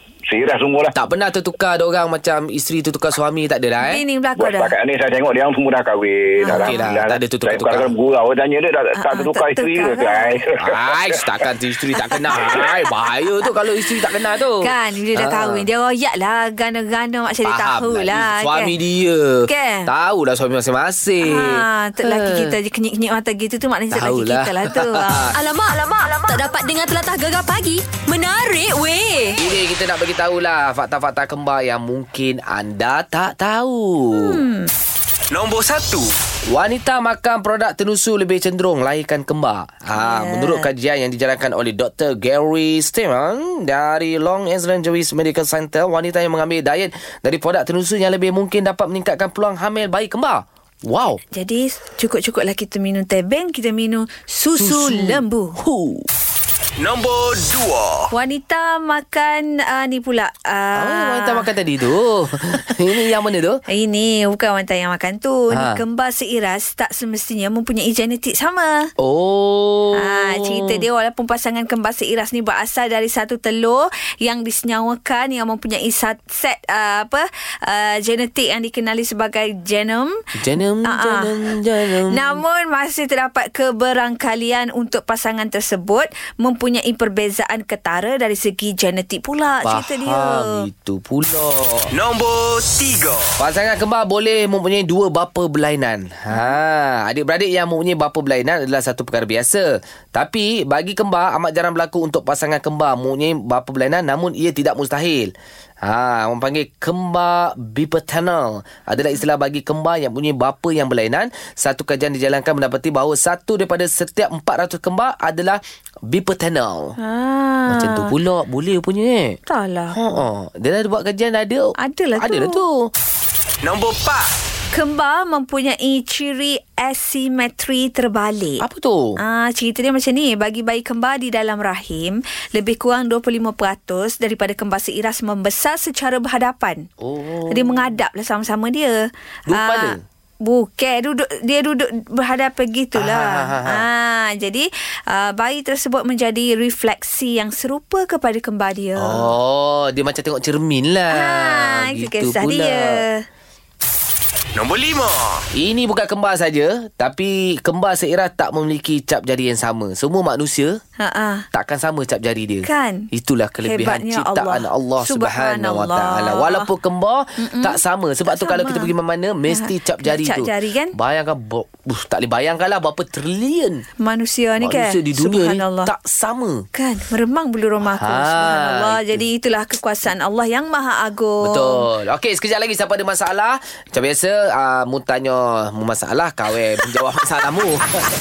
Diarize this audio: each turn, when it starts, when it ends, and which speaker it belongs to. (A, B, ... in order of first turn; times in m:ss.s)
0:00.3-0:00.9 A
0:00.9-0:04.0 B
0:03.8-0:04.7 C
0:04.4-0:11.3 A
0:06.4-0:06.8 C
0:06.5-0:07.9 B
0:09.0-0:10.4 C
0:10.6-0:15.6 B
0:12.0-0:12.9 C
0:14.6-0:18.7 C
0:17.4-0:22.6 B
0:19.5-0:19.9 C
0:21.2-0:25.3 C
0:23.9-0:25.4 B
0:25.3-0:29.4 D
0:29.4-0:34.4 B
0:34.1-0:34.7 C
0:35.3-0:36.1 E
0:36.5-0:51.2 B
0:39.9-0:40.6 C
0:51.3-0:55.6 C
0:54.6-0:56.1 B
0:56.8-0:58.1 E
0:58.1-1:01.5 C
1:00.8-1:03.6 B
1:03.7-1:08.9 C
1:05.5-1:05.8 B
1:09.0-1:10.8 B
1:10.0-1:20.2 C
1:20.3-1:22.4 B
1:20.9-1:21.5 C
1:22.1-1:30.6 C
1:29.6-1:31.9 B
1:31.9-1:33.4 E
1:33.4-1:45.3 B
1:45.8-1:56.9 B
1:57.0-1:58.1 C
1:57.7-1:59.4 B
1:59.5-2:00.0 C
1:59.9-2:02.9 B
2:01.8-2:02.6 C
2:03.6-2:04.3 E
2:04.7-2:08.6 C
2:08.6-2:09.1 B
2:09.2-2:16.9 C
2:17.0-2:17.9 B
2:17.5-2:29.3 C
2:19.5-2:20.0 B
2:22.9-2:23.8 B
2:29.0-2:33.0 B
2:31.1-2:33.2 C
2:34.5-2:35.4 E
2:35.5-2:40.8 B
2:41.0-2:41.5 C
2:41.5-2:53.8 B
2:42.6-2:43.1 C
2:43.6-2:46.7 C
2:47.4-2:48.9 C
2:49.5-2:50.9 C
2:54.0-2:55.9 C
2:54.6-2:56.6 B
2:56.7-3:01.8 C
2:57.8-2:59.2 B
3:01.4-3:08.0 B